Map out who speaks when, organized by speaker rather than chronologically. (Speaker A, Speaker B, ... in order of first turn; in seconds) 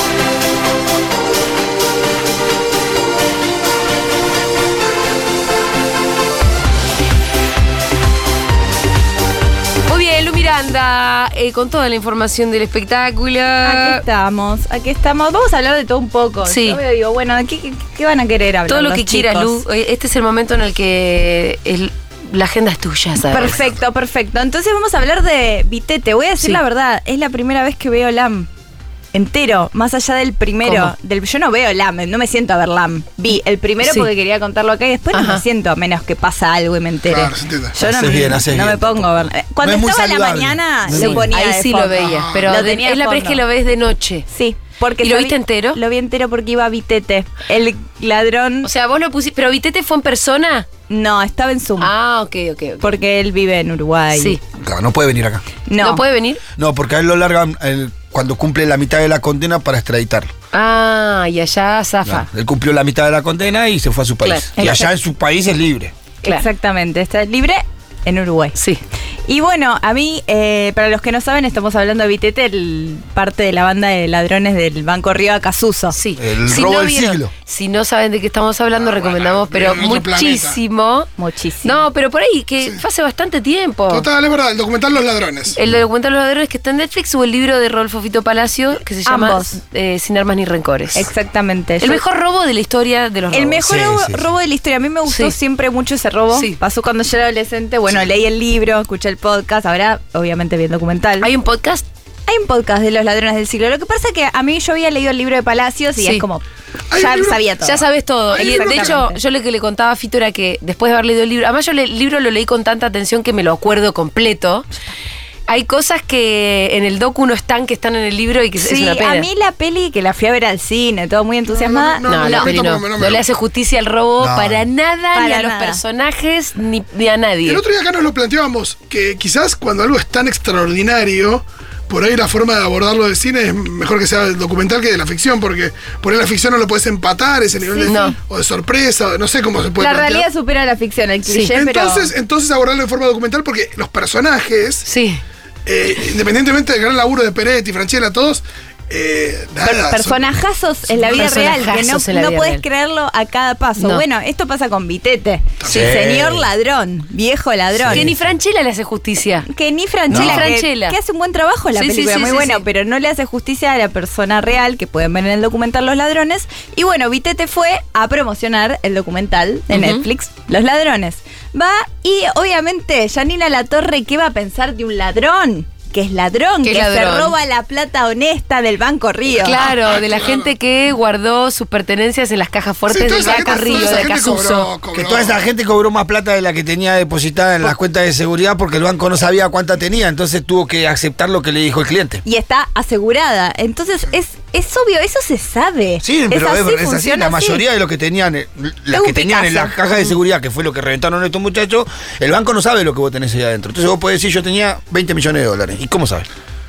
Speaker A: 9.9-14.0, 16.5-16.8, 18.7-23.6, 30.6-30.9, 33.8-34.1, 35.1-35.4, 41.0-44.3, 45.0-45.8, 48.6-50.7, 51.8-52.9, 54.1-54.4, 55.8-56.4, 60.5-62.3, 68.5-68.8, 75.9-81.1, 81.6-84.1, 85.5-91.0, 91.8-93.6, 95.1-95.3, 96.3-96.6, 101.2-101.8, 106.0-106.2, 107.6-114.7, 115.5-119.3, 122.1-127.6, 137.9-138.2, 141.3-141.5, 144.8-145.2, 151.1-152.6, 153.8-154.1, 157.9-159.5, 160.1-161.0, 161.7-162.6, 169.7-170.1, 176.7-177.3, 179.4-184.7
Speaker B: 13.6-19.6, 23.3-28.5, 29.1-43.4, 44.3-48.7, 50.9-51.9, 52.8-54.4, 55.7-56.1, 64.6-64.9, 66.2-68.5, 69.3-76.0, 81.2-81.8, 89.1-89.6, 91.0-92.0, 93.3-101.3, 102.3-106.4, 107.0-107.8, 108.3-109.2, 118.6-122.5, 125.1-125.8, 137.7-138.1, 139.8-142.1, 149.6-158.1, 159.5-179.7, 192.2-197.6, 198.9-199.8
Speaker C: 37.1-37.8, 42.0-42.5, 78.8-80.6, 83.9-85.5, 106.9-107.4, 108.3-109.0, 121.5-123.2, 127.5-140.3, 141.5-144.9, 145.7-150.2, 155.6-155.9, 179.7-180.5, 182.9-185.4
Speaker D: 37.8-41.3, 54.6-55.4, 56.6-60.3, 62.0-65.9, 76.2-77.3, 93.6-94.3, 124.2-124.7, 155.7-156.5, 157.8-158.1, 160.1-160.5, 184.9-192.2, 196.0-206.3